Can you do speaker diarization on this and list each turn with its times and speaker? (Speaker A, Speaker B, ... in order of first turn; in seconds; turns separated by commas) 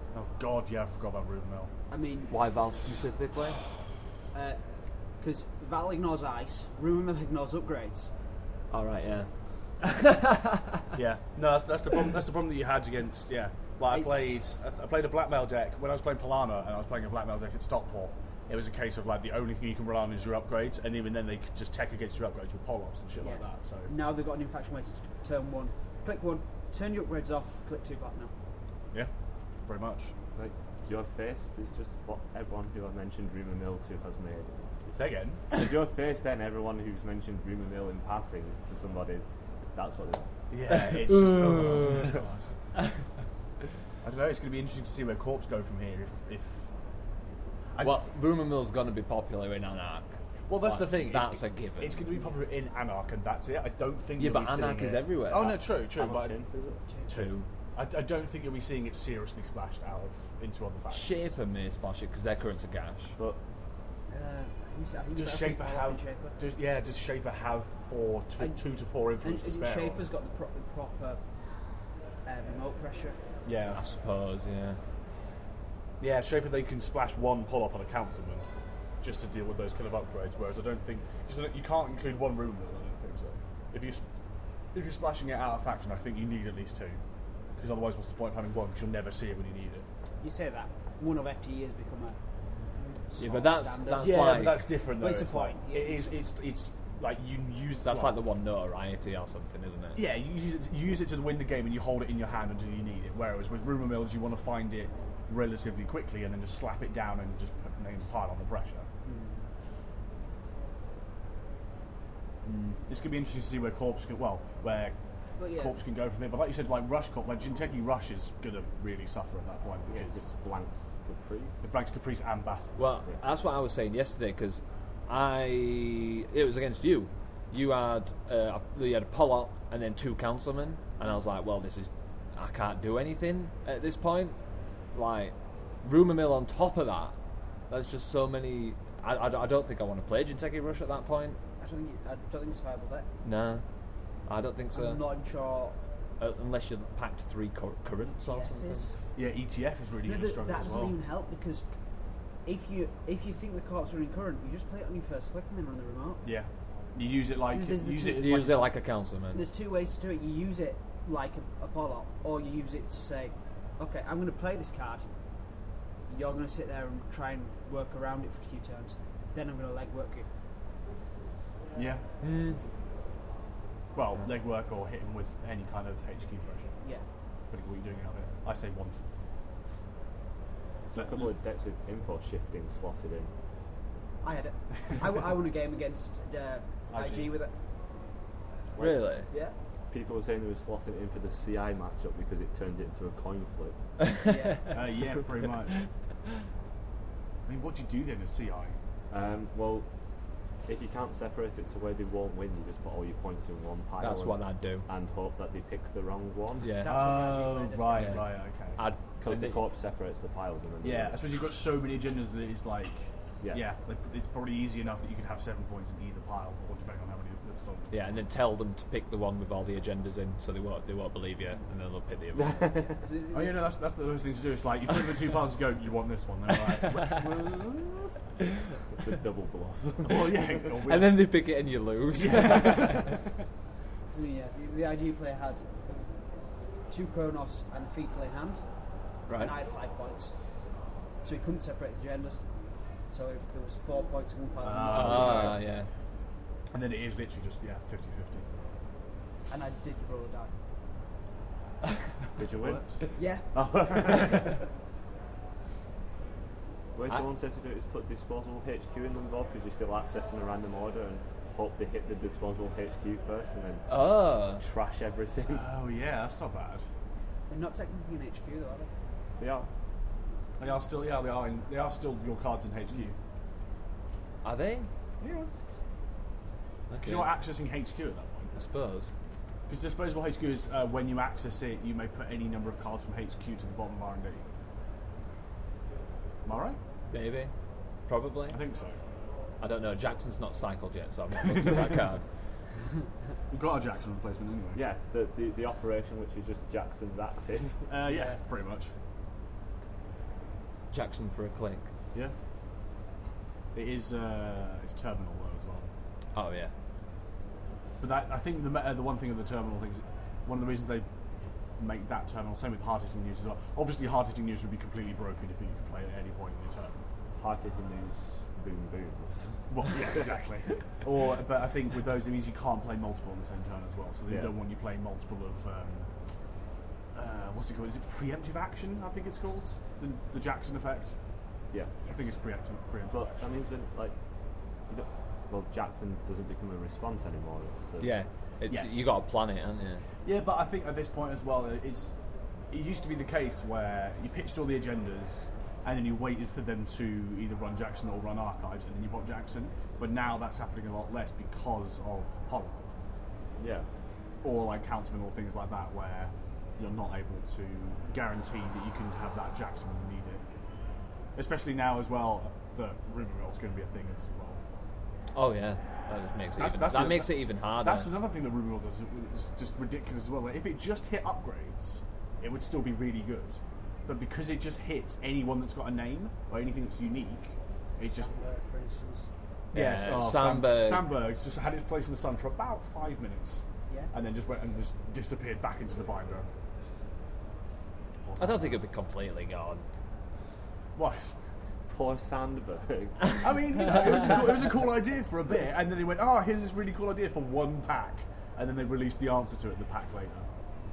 Speaker A: 0.1-1.7, Speaker B: 1.9-2.3, Speaker C: 2.3-3.6, Speaker B: 4.3-4.6, Speaker B: 5.2-8.1, Speaker C: 8.7-10.9, Speaker A: 10.9-23.9, Speaker B: 13.9-14.6, Speaker B: 23.2-28.3, Speaker A: 29.7-30.1, Speaker D: 30.4-35.0, Speaker A: 34.9-35.5, Speaker D: 35.5-39.2, Speaker D: 39.8-40.2, Speaker A: 40.5-42.6, Speaker A: 44.0-46.7, Speaker A: 47.7-48.0, Speaker C: 47.8-52.1, Speaker A: 50.5-56.4, Speaker C: 54.2-55.6, Speaker D: 55.4-56.8, Speaker B: 56.9-57.2, Speaker C: 57.1-57.5, Speaker A: 57.1-61.3, Speaker C: 60.9-63.2, Speaker B: 64.1-66.4, Speaker A: 65.2-70.0, Speaker B: 69.2-71.2, Speaker B: 72.2-73.2, Speaker A: 73.5-73.8, Speaker C: 73.7-74.8, Speaker A: 76.0-78.5, Speaker A: 79.0-84.0, Speaker A: 84.7-87.0, Speaker A: 87.6-89.8, Speaker B: 90.2-92.2, Speaker B: 93.0-96.2, Speaker C: 93.2-94.8, Speaker A: 94.0-98.2, Speaker C: 97.8-100.0, Speaker A: 100.0-108.9, Speaker B: 109.0-109.4, Speaker A: 112.5-115.0, Speaker B: 115.4-115.8, Speaker A: 115.5-120.3, Speaker D: 119.9-121.7, Speaker A: 121.6-122.8, Speaker C: 122.8-134.4, Speaker C: 134.9-137.2, Speaker C: 137.7-141.4, Speaker B: 141.6-143.1, Speaker C: 143.2-143.7, Speaker C: 144.3-145.0, Speaker B: 144.7-145.8, Speaker C: 146.2-148.9, Speaker B: 148.0-149.0, Speaker A: 149.2-151.0, Speaker B: 150.1-151.7, Speaker B: 152.4-156.2, Speaker A: 156.2-158.7, Speaker B: 157.5-158.2, Speaker C: 158.1-159.5, Speaker B: 159.3-165.1, Speaker B: 166.1-170.3, Speaker A: 171.8-172.1, Speaker C: 172.2-172.6, Speaker A: 173.9-176.8, Speaker A: 177.5-179.0, Speaker A: 180.9-181.3, Speaker D: 181.0-183.3, Speaker B: 184.2-187.5, Speaker A: 186.9-187.3, Speaker D: 188.8-189.0, Speaker C: 188.8-189.3, Speaker B: 189.3-189.6, Speaker D: 189.9-193.8, Speaker C: 194.0-194.8, Speaker B: 194.3-194.8, Speaker A: 194.7-195.8, Speaker A: 197.5-198.8, Speaker D: 199.1-199.9, Speaker D: 200.7-206.8, Speaker C: 204.0-204.9, Speaker C: 206.6-207.0, Speaker B: 206.8-208.3, Speaker A: 206.8-208.8, Speaker C: 207.9-208.2, Speaker C: 208.8-209.6, Speaker D: 209.2-211.2, Speaker A: 210.8-218.1, Speaker C: 217.9-222.7, Speaker D: 222.3-222.9, Speaker B: 222.7-223.7, Speaker A: 223.3-227.6, Speaker C: 226.6-227.3, Speaker D: 228.9-230.8, Speaker A: 230.0-231.4, Speaker C: 230.9-233.2, Speaker A: 232.1-233.2, Speaker B: 234.1-236.1, Speaker B: 236.9-238.6, Speaker C: 239.3-239.5, Speaker B: 239.3-240.3, Speaker B: 241.2-242.4, Speaker B: 243.1-245.6, Speaker A: 244.6-245.6, Speaker C: 244.9-245.9, Speaker A: 246.7-248.5, Speaker B: 249.5-250.5, Speaker D: 252.4-253.0, Speaker A: 252.4-253.1, Speaker B: 253.2-253.5, Speaker D: 253.5-254.6, Speaker D: 256.9-265.7, Speaker C: 263.9-264.6, Speaker A: 265.5-266.9, Speaker B: 267.5-268.9, Speaker D: 269.4-269.7, Speaker A: 270.6-273.2, Speaker C: 274.4-274.9, Speaker A: 275.2-275.5, Speaker C: 276.9-277.3, Speaker A: 277.0-278.5, Speaker C: 278.6-279.1, Speaker A: 279.7-284.4, Speaker A: 286.4-286.8, Speaker C: 287.1-287.5, Speaker C: 288.1-288.6, Speaker A: 288.5-289.0, Speaker C: 289.6-292.3, Speaker A: 291.4-292.0, Speaker A: 293.5-294.8, Speaker D: 294.8-297.9, Speaker A: 297.9-298.9, Speaker B: 298.1-298.4, Speaker C: 300.9-301.9, Speaker A: 303.7-305.9, Speaker C: 306.3-306.7, Speaker A: 308.0-311.1, Speaker A: 311.8-317.0, Speaker D: 317.4-321.0, Speaker A: 319.7-326.1, Speaker D: 324.3-324.6, Speaker A: 327.1-331.2, Speaker D: 331.7-332.1, Speaker A: 332.0-333.5, Speaker D: 333.1-334.1, Speaker D: 334.9-338.1, Speaker C: 338.0-340.1, Speaker A: 338.7-339.1, Speaker A: 340.2-342.1, Speaker A: 342.7-352.9, Speaker D: 353.6-353.9, Speaker A: 354.4-360.4, Speaker A: 361.4-364.6, Speaker C: 365.3-368.1, Speaker A: 366.6-378.3, Speaker B: 378.0-379.3, Speaker C: 379.7-381.1, Speaker A: 379.7-386.5, Speaker A: 388.2-388.8, Speaker C: 388.4-389.9, Speaker A: 391.0-391.4, Speaker D: 391.9-394.0, Speaker A: 393.4-400.5